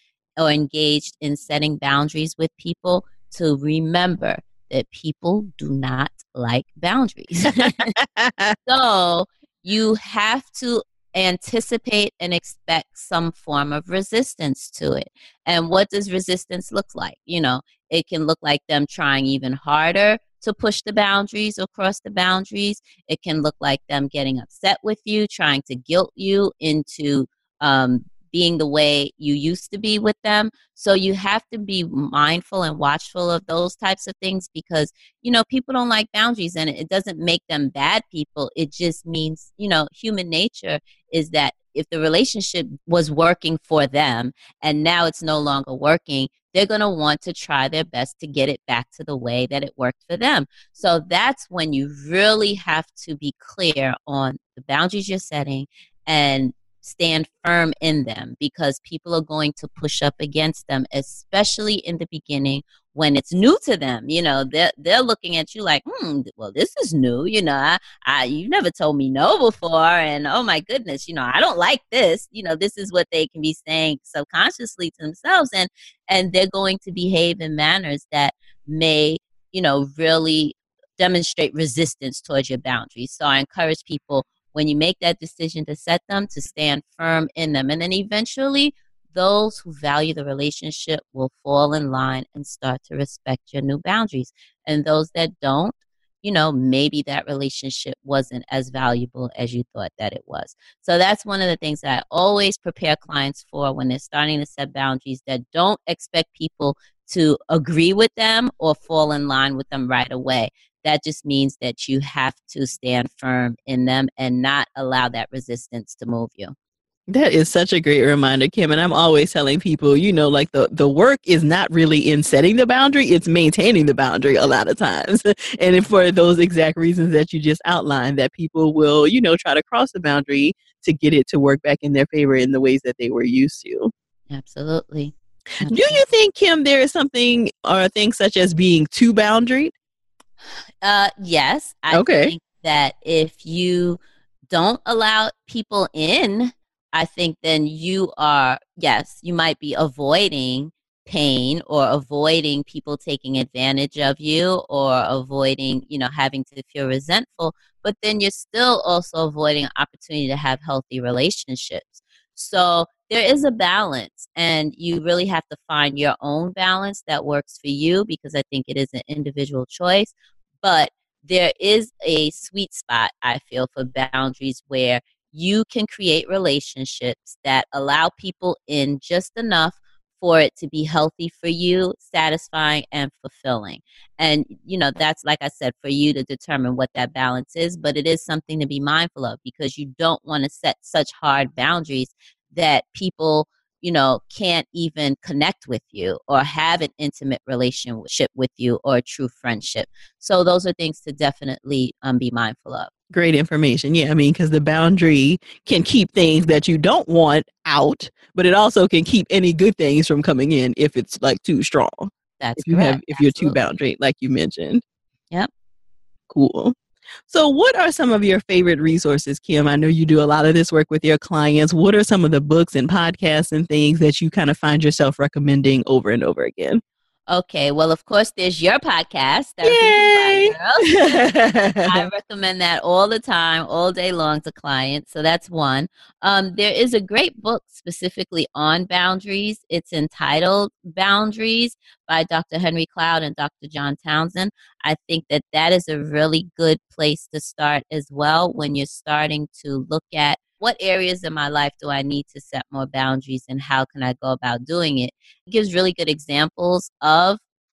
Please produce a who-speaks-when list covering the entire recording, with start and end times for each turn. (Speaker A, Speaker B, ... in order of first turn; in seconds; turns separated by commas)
Speaker A: 0.4-7.9, Speaker B: 8.2-8.5, Speaker A: 8.7-116.5, Speaker B: 117.1-133.9, Speaker A: 134.3-136.0, Speaker B: 135.7-139.7, Speaker A: 140.8-202.9, Speaker B: 141.9-142.3, Speaker B: 203.1-214.8, Speaker A: 212.4-213.6, Speaker B: 216.3-216.7, Speaker B: 217.3-226.8, Speaker A: 227.3-230.9, Speaker B: 229.6-232.0, Speaker A: 231.8-257.4